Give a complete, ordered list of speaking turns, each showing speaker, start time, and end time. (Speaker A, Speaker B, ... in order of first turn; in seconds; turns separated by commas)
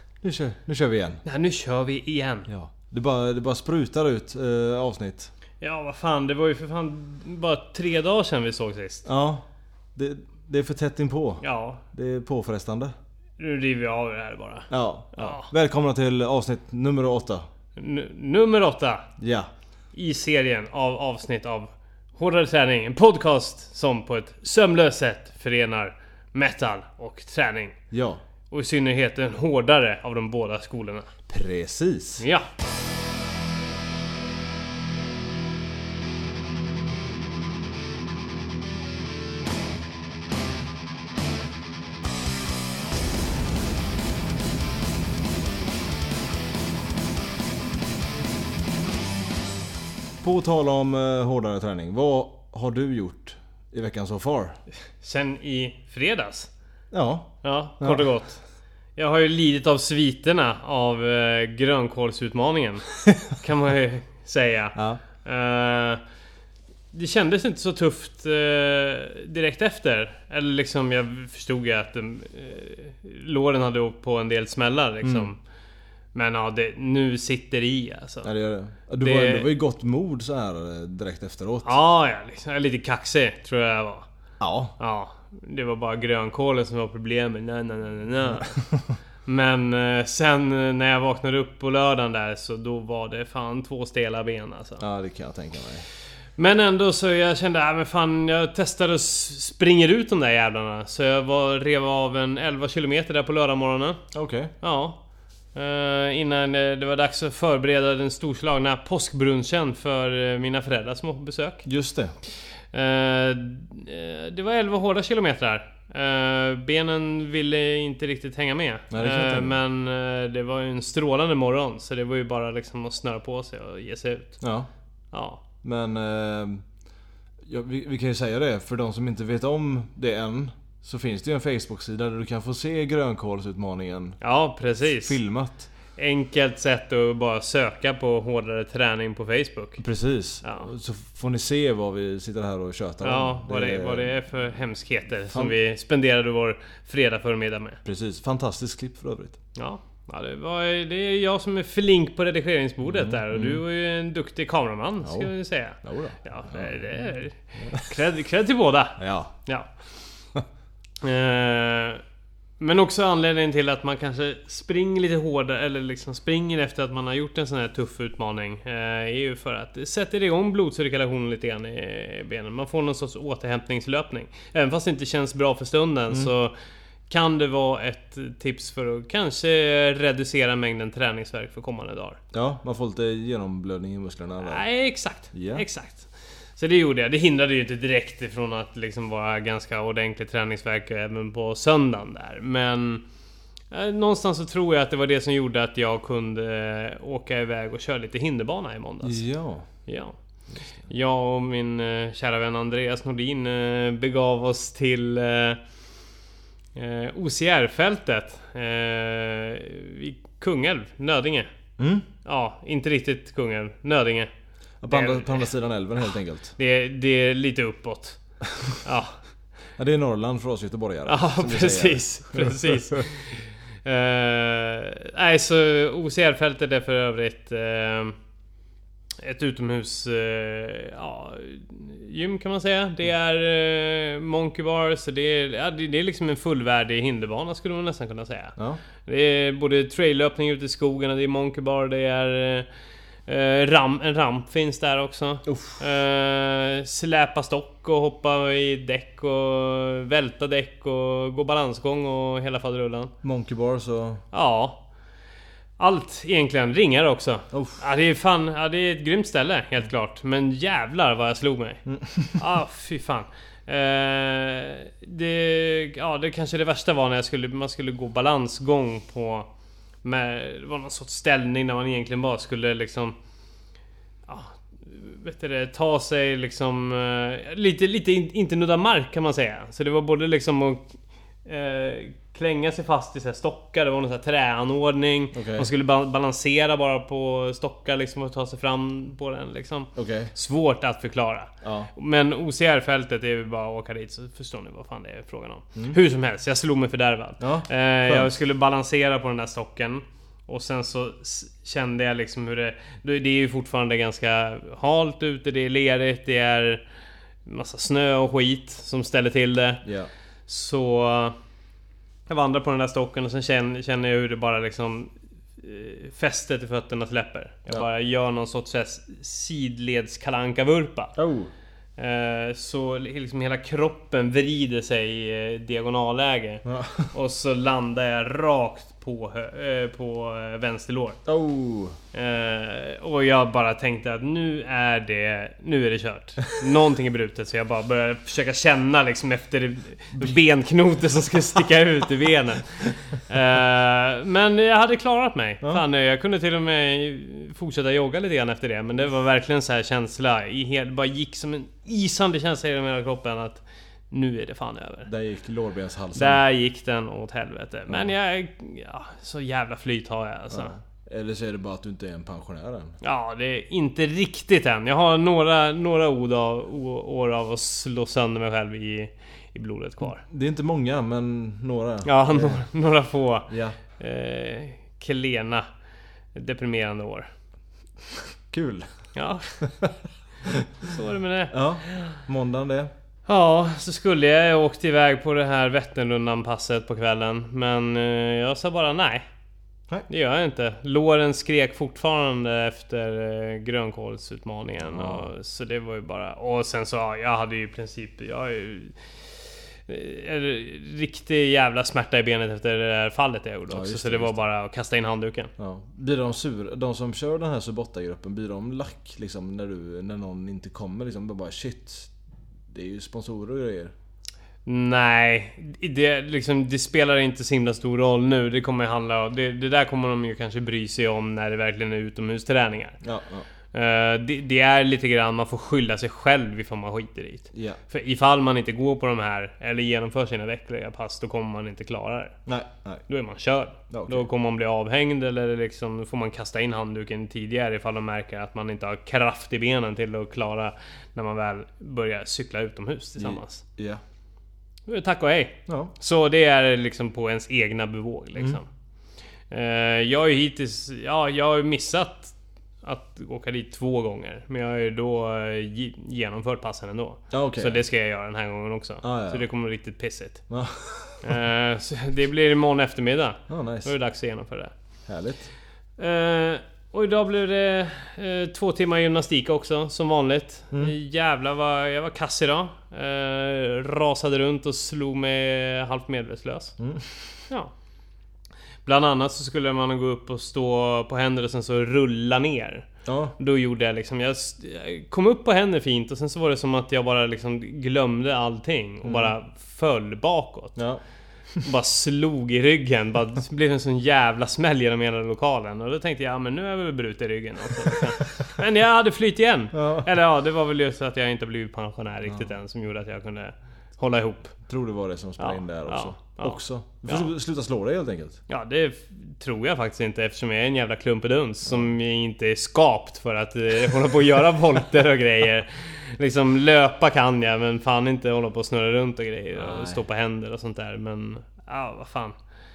Speaker A: 0.2-1.2, Speaker B: 1.2-2.5, Speaker A: 2.5-5.3, Speaker B: 5.6-9.1, Speaker A: 9.0-12.9, Speaker B: 11.4-11.8, Speaker B: 13.4-15.5, Speaker A: 14.7-17.4, Speaker B: 17.8-19.1, Speaker A: 19.2-19.5, Speaker B: 19.9-27.8, Speaker A: 27.9-28.2, Speaker B: 28.5-31.1, Speaker A: 31.3-32.2, Speaker B: 32.2-32.5, Speaker A: 50.2-54.6, Speaker B: 55.0-56.5, Speaker A: 56.9-58.0, Speaker B: 57.4-58.4, Speaker B: 59.0-66.0, Speaker A: 64.7-65.0, Speaker B: 66.9-75.4, Speaker A: 75.0-75.3, Speaker B: 76.1-78.3, Speaker A: 78.2-81.7, Speaker B: 79.0-79.5, Speaker B: 81.6-84.1, Speaker A: 84.4-84.7, Speaker B: 84.8-88.6, Speaker B: 89.2-94.8, Speaker A: 94.8-95.8, Speaker B: 96.4-104.0, Speaker A: 104.1-104.5, Speaker B: 104.6-105.0, Speaker B: 105.5-111.7, Speaker A: 111.6-112.1, Speaker B: 112.7-124.4, Speaker A: 118.9-119.6, Speaker A: 124.4-124.7, Speaker B: 125.1-125.4, Speaker A: 125.6-126.6, Speaker A: 127.4-134.2, Speaker B: 134.2-135.2, Speaker A: 134.8-135.7, Speaker B: 135.9-139.8, Speaker A: 139.8-144.2, Speaker B: 140.4-140.7, Speaker B: 143.0-147.8, Speaker A: 145.3-145.5, Speaker A: 147.8-149.4, Speaker B: 149.6-159.7, Speaker A: 152.8-153.6, Speaker A: 155.0-157.0, Speaker A: 159.0-159.3, Speaker B: 161.0-162.0, Speaker B: 162.6-176.5, Speaker B: 177.1-182.2, Speaker A: 182.3-184.6, Speaker B: 184.4-193.0, Speaker A: 185.3-185.6, Speaker B: 193.7-199.2, Speaker A: 199.0-199.7, Speaker B: 199.8-200.2, Speaker B: 200.8-205.6, Speaker B: 206.7-211.5, Speaker A: 211.8-212.1, Speaker B: 212.2-214.3, Speaker A: 214.8-216.5, Speaker B: 214.9-215.5, Speaker B: 216.6-218.2, Speaker B: 218.8-219.2, Speaker A: 219.8-222.7, Speaker B: 221.1-228.1, Speaker B: 229.2-242.7, Speaker B: 243.3-253.1, Speaker A: 245.4-245.8, Speaker A: 253.2-254.2, Speaker B: 254.3-254.8, Speaker B: 255.8-261.8, Speaker A: 257.5-257.8, Speaker A: 261.9-262.4, Speaker B: 262.4-269.5, Speaker B: 270.0-273.1, Speaker B: 274.3-280.9, Speaker B: 281.4-306.8, Speaker A: 285.3-285.7, Speaker A: 289.9-290.3, Speaker A: 291.6-291.9, Speaker A: 297.4-298.3, Speaker B: 307.4-309.9, Speaker A: 309.8-310.1, Speaker B: 310.5-311.4, Speaker B: 312.3-321.1, Speaker A: 321.1-321.5, Speaker B: 322.0-331.2, Speaker A: 326.6-327.1, Speaker A: 331.2-332.0, Speaker B: 332.1-355.1, Speaker A: 355.1-356.4, Speaker B: 356.1-360.7, Speaker A: 360.5-362.9, Speaker B: 363.0-370.2, Speaker A: 370.2-372.6, Speaker B: 372.0-375.6, Speaker A: 373.5-373.8, Speaker B: 376.3-377.3, Speaker A: 378.5-378.9, Speaker B: 379.1-379.7, Speaker A: 379.6-380.7, Speaker B: 380.8-382.2, Speaker A: 381.5-382.9, Speaker B: 383.3-389.2, Speaker B: 390.1-399.0, Speaker A: 394.8-395.3, Speaker B: 399.9-405.5, Speaker A: 403.7-404.4, Speaker A: 405.6-412.1, Speaker A: 412.7-413.9, Speaker B: 414.6-423.0, Speaker A: 423.0-423.4, Speaker B: 423.7-432.4, Speaker A: 427.5-427.8, Speaker A: 432.4-433.0, Speaker B: 433.1-443.6, Speaker A: 433.9-434.3, Speaker A: 443.2-444.0, Speaker B: 444.9-448.6, Speaker A: 445.7-445.9, Speaker B: 449.5-460.4, Speaker A: 457.3-457.8, Speaker A: 459.0-459.5, Speaker A: 460.5-461.3, Speaker B: 461.2-464.7, Speaker A: 463.5-463.9, Speaker A: 465.1-465.5, Speaker B: 466.0-476.8, Speaker A: 476.8-477.3, Speaker B: 478.8-482.9, Speaker A: 483.0-483.4, Speaker B: 483.4-490.8, Speaker A: 489.0-489.3, Speaker A: 490.8-491.0, Speaker B: 491.6-504.6, Speaker A: 499.7-500.1, Speaker A: 504.7-508.4, Speaker B: 505.4-507.3, Speaker B: 508.5-522.3, Speaker A: 519.5-520.0